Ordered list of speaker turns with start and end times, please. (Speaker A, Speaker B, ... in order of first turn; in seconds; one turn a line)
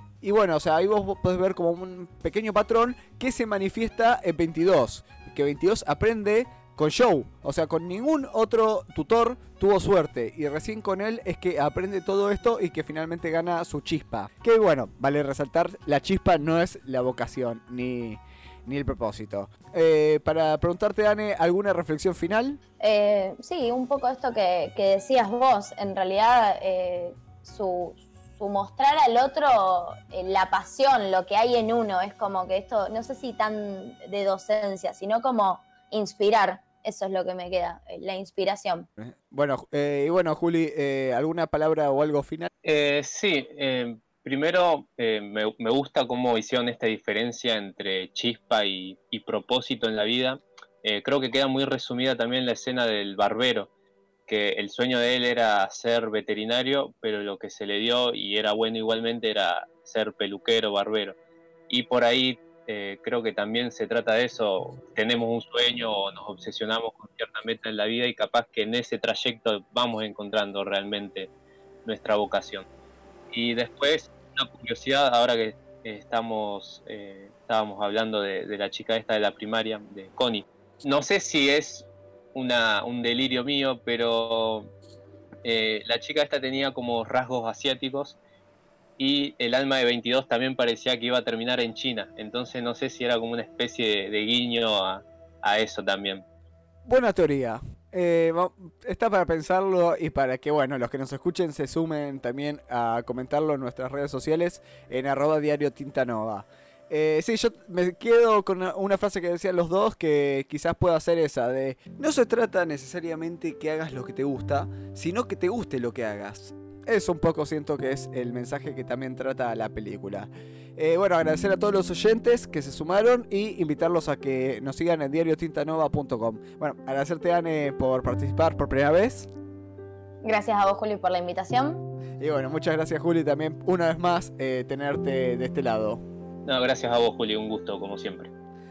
Speaker A: 0.2-22.6
Speaker B: 22.8-38.9
Speaker A: 39.0-42.5
Speaker C: 42.6-53.7
Speaker C: 54.3-61.2
Speaker C: 61.7-71.3
Speaker C: 71.8-72.7
Speaker C: 73.3-84.7
Speaker C: 85.4-88.2
Speaker C: 89.0-96.2
Speaker A: 96.8-129.3
Speaker B: 130.2-131.8
Speaker A: 132.2-136.0
Speaker C: 136.4-138.3